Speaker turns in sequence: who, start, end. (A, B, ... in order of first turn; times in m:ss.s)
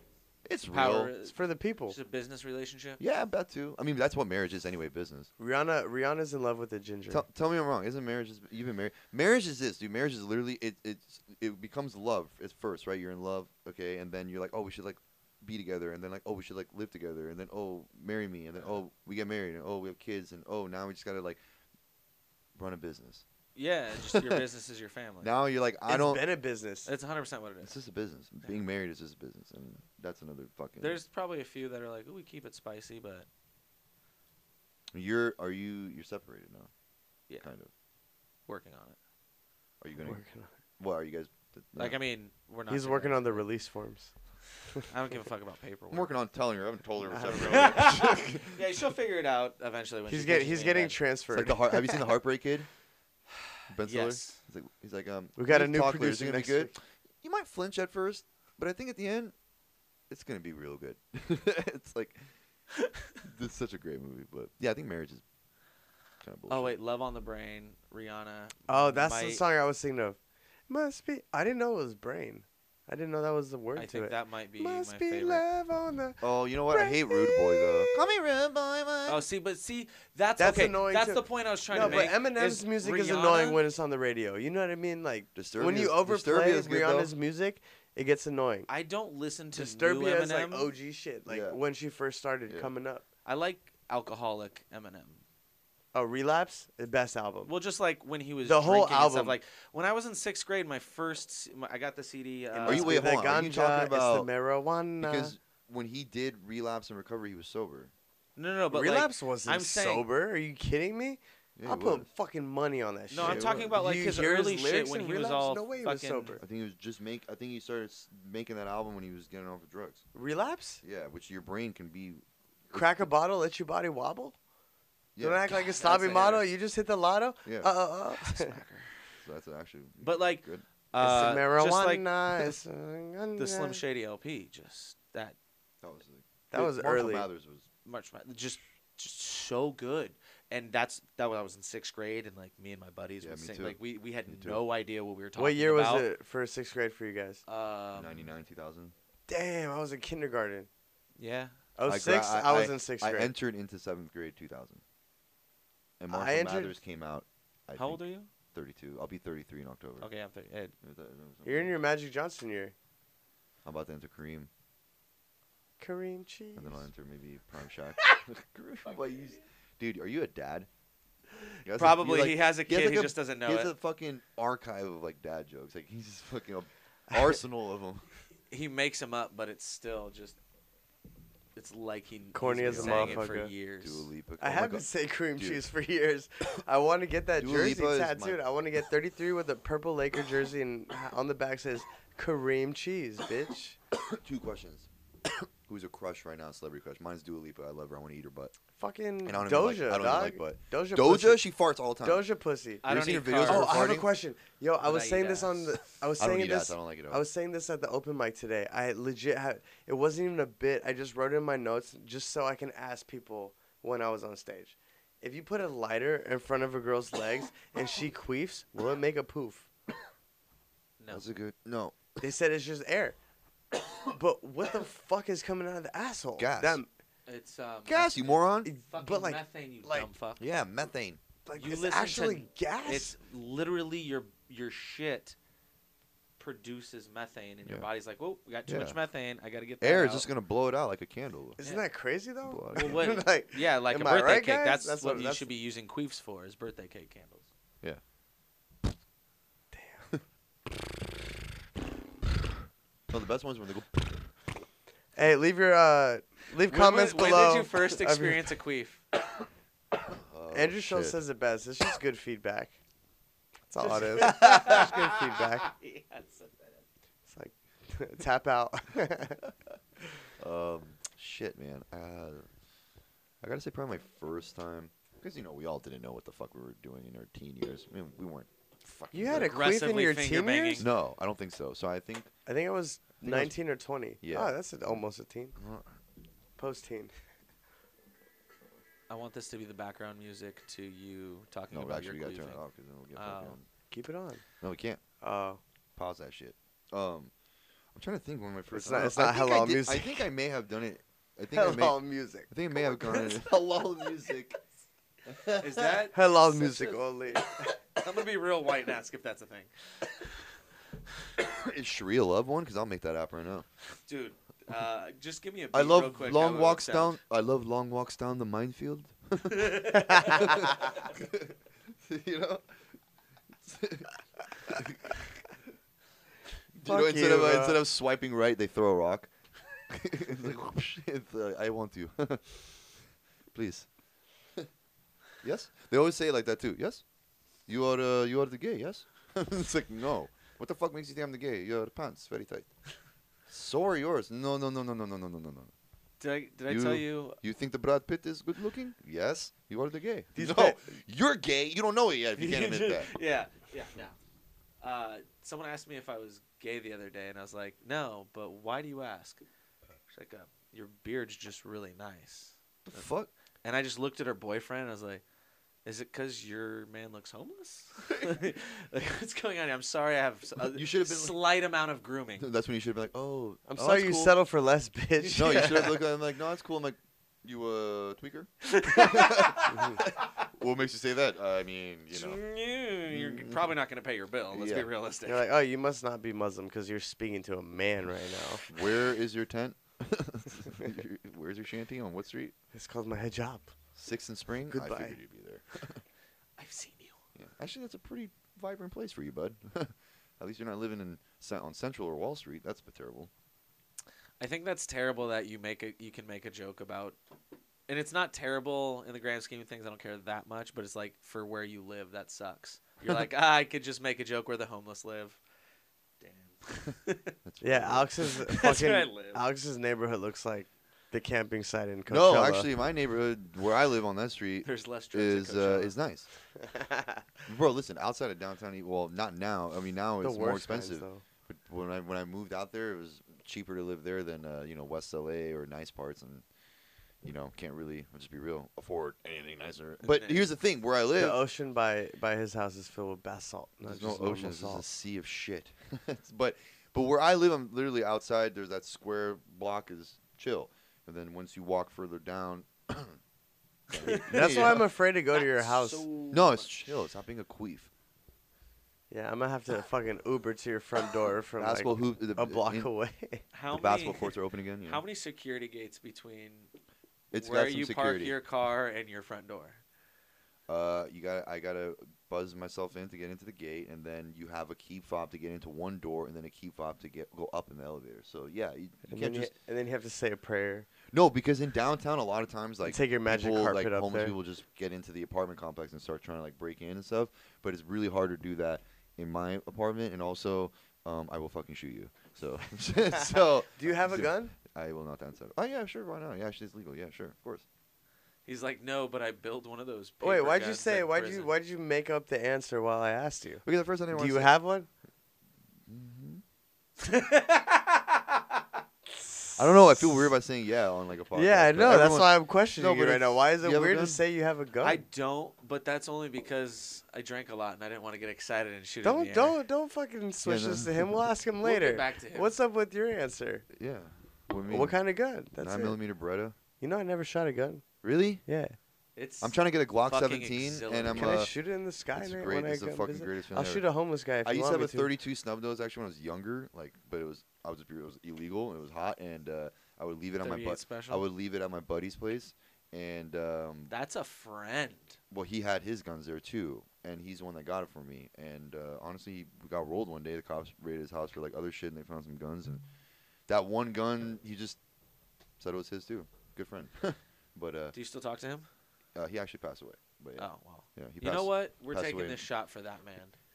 0:00.4-0:01.1 A
0:00.7-0:03.0 B
0:01.2-0:02.0 C
0:03.0-0:05.3 A
0:05.4-0:07.2 C
0:07.1-0:21.4 A
0:22.5-0:23.2 A
0:23.5-0:25.3 B
0:24.0-0:24.4 A
0:25.2-0:26.2 A
0:25.8-0:26.9 C
0:26.8-0:27.7 B
0:27.6-0:31.0 A
0:30.8-0:33.3 B
0:34.9-0:36.7 A
0:37.4-0:37.7 A
0:38.5-0:39.0 B
0:39.8-0:40.2 A
0:40.0-0:40.5 C
0:40.8-0:42.0 A
0:41.8-0:43.4 B
0:42.7-0:44.1 C
0:44.9-0:46.1 B
0:45.9-0:48.6 A
0:47.1-0:47.4 C
0:47.4-0:51.0 B
0:50.1-0:52.0 C
0:51.3-0:52.7 A
0:53.3-0:54.4 B
0:53.7-0:59.3 A
0:55.4-0:56.7 C
1:00.1-1:02.2 A
1:03.2-1:05.2 A
1:06.2-1:06.7 A
1:06.5-1:09.4 B
1:08.7-1:10.2 C
1:10.7-1:18.0 C
1:13.8-1:15.4 B
1:16.2-1:19.2 A
1:19.1-1:23.6 B
1:20.4-1:28.7 C
1:21.8-1:22.1 A
1:25.3-1:27.1 A
1:28.7-1:30.7 B
1:29.5-1:33.0 C
1:31.3-1:31.6 A
1:33.2-1:35.2 B
1:35.9-1:37.5 C
1:37.4-1:43.0 B
1:38.4-1:39.4 C
1:42.5-1:45.3 C
1:42.6-1:44.3 A
1:45.0-1:47.9 A
1:48.4-1:50.1 B
1:48.7-1:56.4 C
1:51.6-1:52.1 A
1:53.1-1:56.4 B
1:53.2-1:53.8 A
1:56.4-2:00.0 A
2:00.1-2:00.8 C
2:00.8-2:03.1 A
2:02.7-2:04.4 C
2:05.1-2:05.4 A
2:05.2-2:08.6 C
2:05.5-2:06.4 B
2:07.4-2:07.7 A
2:08.2-2:08.9 B
2:09.2-2:10.7 A
2:10.0-2:12.5 B
2:11.0-2:13.8 C
2:13.4-2:15.4 B
2:15.8-2:17.7 A
2:16.5-2:17.3 C
2:17.8-2:26.1 B
2:23.2-2:24.6 A
2:25.4-2:27.4 C
2:27.5-2:28.3 B
2:27.9-2:28.9 A
2:29.3-2:30.7 C
2:31.2-2:31.6 B
2:31.8-2:33.3 C
2:31.8-2:34.8 A
2:36.0-2:40.1 A
2:36.1-2:36.8 C
2:37.7-2:38.3 B
2:40.0-2:40.7 B
2:40.8-2:41.7 A
2:41.4-2:42.7 C
2:43.6-2:44.5 A
2:45.8-2:46.8 C
2:46.6-2:50.7 A
2:51.3-2:53.7 B
2:51.6-2:58.0 A
2:58.5-3:00.4 B
3:01.6-3:04.1 B
3:02.3-3:03.5 C
3:02.4-3:05.6 A
3:04.4-3:13.8 C
3:07.4-3:08.4 A
3:13.9-3:18.5 A
3:18.8-3:21.4 C
3:19.2-3:22.2 A
3:22.0-3:22.8 C
3:22.8-3:23.7 B
3:22.8-3:24.1 A
3:23.4-3:39.7 C
3:24.8-3:25.8 B
3:26.2-3:27.2 A
3:41.0-3:41.2 B
3:41.1-3:42.0 A
3:42.2-3:43.2 C
3:44.1-3:46.9 C
3:46.4-3:46.8 A
3:47.3-3:50.4 B
3:47.8-3:48.7 A
3:48.6-3:50.1 C
3:50.4-3:51.2 A
3:51.4-3:53.1 C
3:51.6-3:55.4 B
3:56.4-4:00.3 B
3:58.7-3:59.0 A
3:59.8-4:01.6 A
4:01.6-4:05.5 C
4:02.4-4:03.1 A
4:02.7-4:07.5 B
4:09.7-4:10.1 C
4:13.1-4:14.2 A
4:15.2-4:18.4 C
4:16.6-4:19.0 B
4:20.0-4:21.2 A
4:20.5-4:22.8 C
4:23.7-4:25.7 C
4:24.0-4:26.8 B
4:27.3-4:29.4 C
4:30.4-4:32.5 A
4:33.4-4:39.6 A
4:39.1-4:40.8 C
4:39.3-4:40.9 B
4:40.8-4:42.3 A
4:42.5-4:45.6 C
4:43.2-4:43.5 A
4:44.2-4:45.0 A
4:45.6-4:46.0 A
4:46.6-4:47.1 C
4:49.1-4:52.6 B
4:51.7-4:53.6 A
4:53.2-4:53.6 B
4:53.9-4:54.4 C
4:54.6-4:55.0 A
4:55.2-4:55.6 C
4:56.0-4:57.3 A
4:57.9-5:04.6 A
4:58.7-5:00.3 C
5:01.5-5:02.5 C
5:03.1-5:03.4 B
5:05.2-5:07.0 A
5:05.5-5:06.2 B
5:06.1-5:07.5 C
5:07.6-5:10.1 B
5:11.4-5:13.6 A
5:14.0-5:17.2 B
5:15.7-5:22.7 A
5:19.4-5:20.8 B
5:20.1-5:20.4 C
5:23.6-5:24.1 A
5:24.6-5:25.2 A
5:26.7-5:32.8 A
5:26.8-5:27.8 C
5:33.5-5:33.9 A
5:35.4-5:37.0 A
5:37.7-5:42.7 A
5:43.5-5:45.7 A
5:46.2-5:47.4 B
5:46.7-5:53.1 A
5:50.4-5:50.8 C
5:52.4-5:54.1 B
5:54.8-5:59.4 B
6:00.1-6:03.0 B
6:02.8-6:03.3 A
6:03.6-6:05.2 B
6:05.8-6:12.5 B
6:10.7-6:11.4 A
6:12.4-6:14.3 A
6:13.7-6:15.9 C
6:15.2-6:16.0 B
6:15.3-6:22.4 A
6:18.6-6:19.9 B
6:19.7-6:20.0 C
6:22.1-6:25.5 B
6:23.1-6:23.7 A
6:24.5-6:24.9 A
6:25.2-6:28.6 C
6:28.7-6:32.5 A
6:32.7-6:33.7 C
6:34.0-6:36.0 A
6:34.7-6:35.2 C
6:36.6-6:37.2 B
6:37.3-6:43.3 A
6:44.4-6:47.2 B
6:47.9-6:55.4 B
6:56.2-6:57.3 B
6:57.4-6:58.1 A
6:57.6-7:02.7 C
6:58.3-6:59.4 B
7:02.1-7:06.3 A
7:04.6-7:05.9 B
7:06.6-7:07.2 C
7:07.5-7:16.4 A
7:10.2-7:11.2 C
7:17.2-7:21.4 A
7:20.0-7:20.5 B
7:21.2-7:24.8 C
7:23.9-7:33.2 A
7:33.9-7:34.9 A
7:33.9-7:36.9 B
7:34.1-7:36.0 C
7:36.3-7:37.9 A
7:39.1-7:43.4 C
7:41.6-7:42.9 A
7:43.5-7:44.3 B
7:43.7-7:45.0 A
7:44.8-7:46.7 B
7:47.3-7:48.4 A
7:47.4-7:49.8 B
7:50.7-7:59.5 A
7:59.1-8:00.9 C
8:01.1-8:17.6 A
8:02.8-8:04.3 C
8:13.7-8:14.5 C
8:18.4-8:21.5 B
8:20.2-8:24.9 C
8:23.6-8:24.5 A
8:25.9-8:26.4 A
8:27.0-8:28.6 B
8:29.2-8:30.2 C
8:29.6-8:34.2 A
8:31.3-8:35.0 C
8:34.8-8:39.6 B
8:39.0-8:43.6 C
8:40.4-8:41.2 A
8:41.6-8:42.5 B
8:43.7-8:45.0 A
8:44.7-8:46.0 C
8:45.6-8:46.5 A
8:46.8-8:47.8 C
8:48.0-8:48.4 A
8:48.4-8:48.8 C
8:49.2-8:51.5 B
8:49.4-8:51.5 A
8:51.1-8:55.1 C
8:52.1-8:53.8 A
8:54.4-9:03.9 A
9:00.4-9:01.2 B
9:03.9-9:05.2 B
9:05.3-9:12.8 A
9:13.5-9:14.8 A
9:15.6-9:17.9 A
9:17.9-9:18.7 B
9:19.1-9:22.4 A
9:20.4-9:23.3 B